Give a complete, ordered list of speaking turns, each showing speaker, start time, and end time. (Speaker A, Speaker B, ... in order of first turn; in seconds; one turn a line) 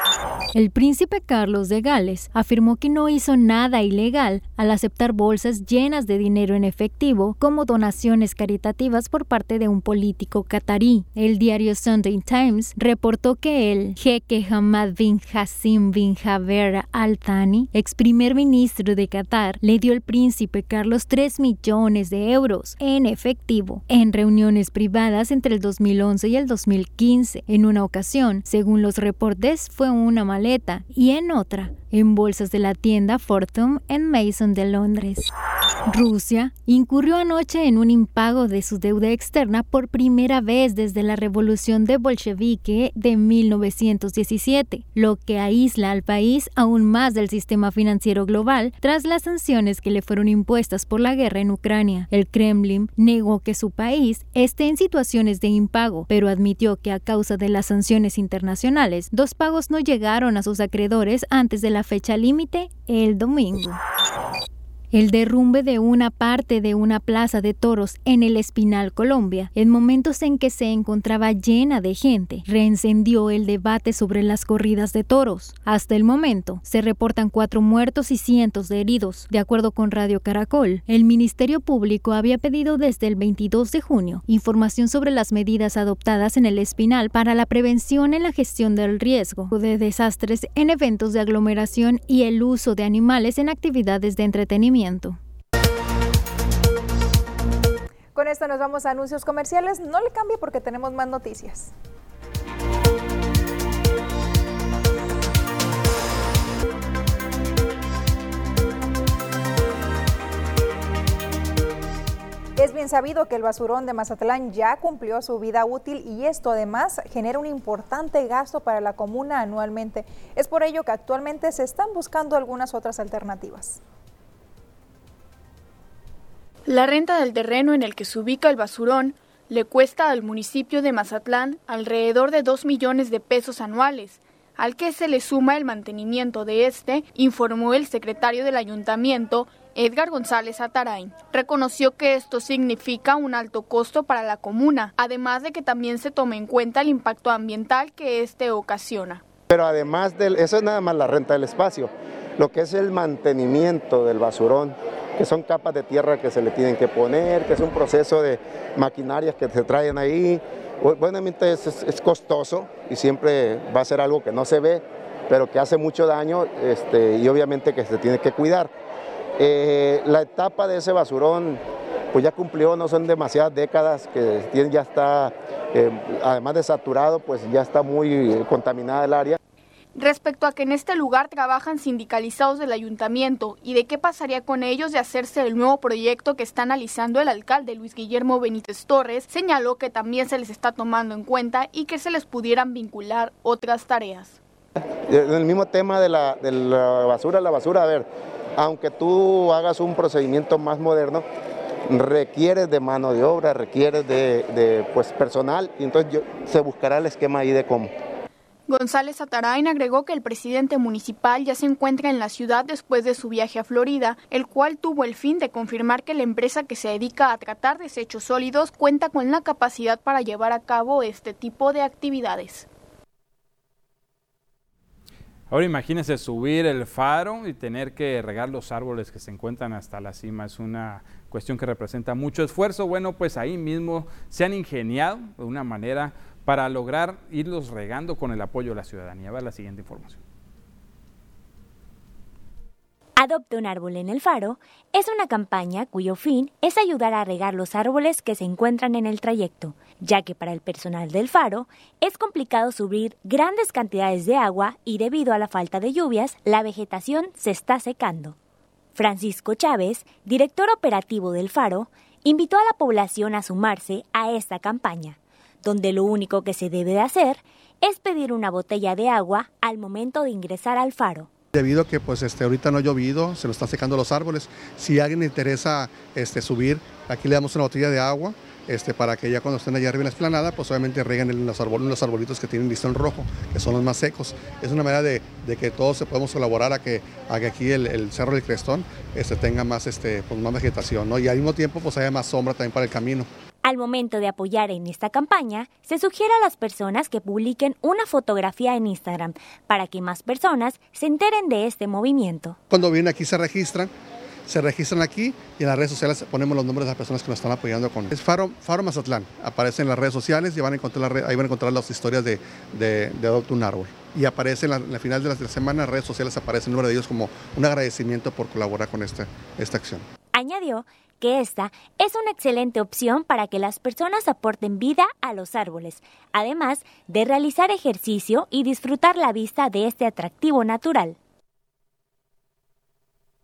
Speaker A: 0.5-35.3
Speaker A: 35.9-63.8
Speaker A: 64.9-95.2
Speaker B: 98.2-101.7
Speaker B: 112.6-123.8
Speaker C: 126.7-149.2
Speaker D: 149.5-168.7
Speaker D: 169.4-171.6
Speaker D: 172.1-179.4
Speaker C: 179.9-194.4
Speaker D: 195.1-201.2
Speaker D: 201.9-207.9
Speaker C: 208.7-222.7
Speaker E: 225.5-240.2
Speaker F: 243.2-258.4
Speaker F: 258.9-271.3
Speaker G: 271.5-293.3
Speaker F: 293.6-302.6
Speaker G: 302.7-303.9
Speaker G: 304.5-320.1
Speaker F: 320.3-331.2